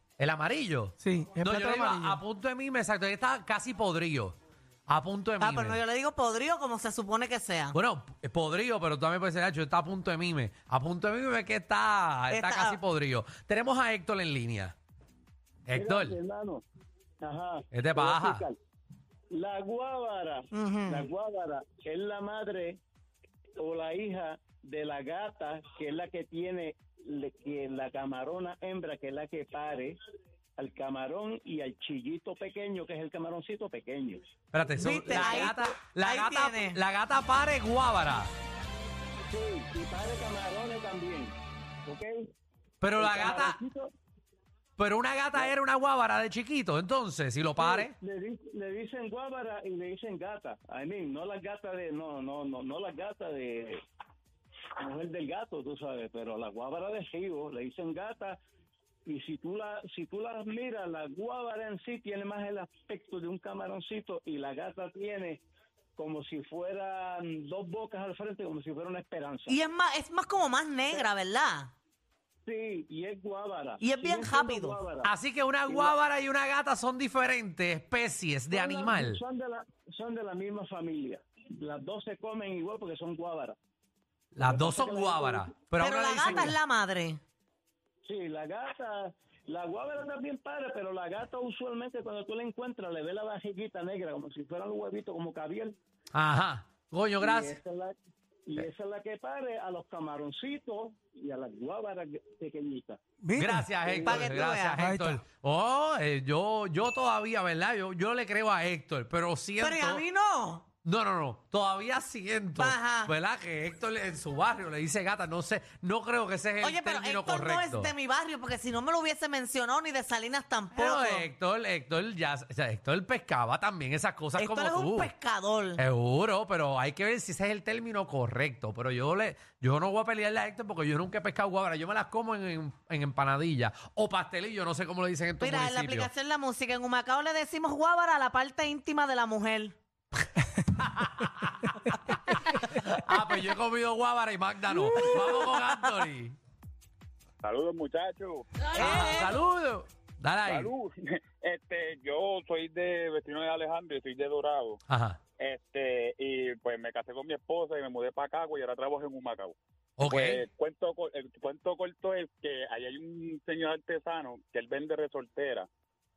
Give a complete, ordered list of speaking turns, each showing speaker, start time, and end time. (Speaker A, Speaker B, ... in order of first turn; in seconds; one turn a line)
Speaker A: 0.2-4.3
Speaker B: 1.0-2.2
Speaker A: 4.9-5.8
Speaker C: 5.4-7.8
Speaker A: 7.7-14.7
Speaker C: 12.3-12.8
Speaker A: 15.7-16.2
Speaker D: 15.7-16.6
Speaker D: 17.2-18.6
Speaker A: 17.7-18.4
Speaker D: 19.3-22.8
Speaker C: 20.5-21.1
Speaker D: 23.6-29.9
Speaker D: 30.6-34.2
Speaker A: 34.5-38.3
Speaker C: 34.8-36.8
Speaker D: 35.1-35.5
Speaker D: 39.3-42.2
Speaker A: 42.8-43.6
Speaker D: 42.9-43.9
Speaker A: 44.8-47.9
Speaker D: 47.6-53.8
Speaker D: 54.8-58.4
Speaker D: 59.0-65.4
Speaker D: 66.0-69.5
Speaker C: 69.5-71.7
Speaker D: 72.5-75.1
Speaker C: 73.8-74.8
Speaker A: 75.0-79.2
Speaker D: 75.7-76.0
Speaker D: 78.5-83.5
Speaker A: 84.3-86.5
Speaker D: 84.4-85.6
Speaker C: 85.8-87.2
Speaker D: 86.2-86.5
Speaker D: 88.0-95.8
Speaker A: 96.1-97.5
Speaker D: 97.2-97.9
Speaker D: 98.5-103.0
Speaker B: 103.2-103.7
Speaker A: 103.3-110.0
Speaker D: 103.7-104.4
Speaker C: 104.0-104.8
Speaker B: 104.8-105.2
Speaker C: 109.6-110.7
Speaker A: 110.8-117.9
Speaker C: 112.6-113.1
Speaker C: 116.6-121.3
Speaker A: 120.7-125.1
Speaker C: 124.4-125.8
Speaker A: 125.8-136.1
Speaker C: 135.4-139.8
Speaker A: 140.7-146.3
Speaker E: 147.4-148.4
Speaker C: 148.7-149.4
Speaker A: 148.7-150.7
Speaker E: 150.4-154.8
Speaker A: 154.9-155.2
Speaker E: 155.4-165.7
Speaker A: 160.0-160.4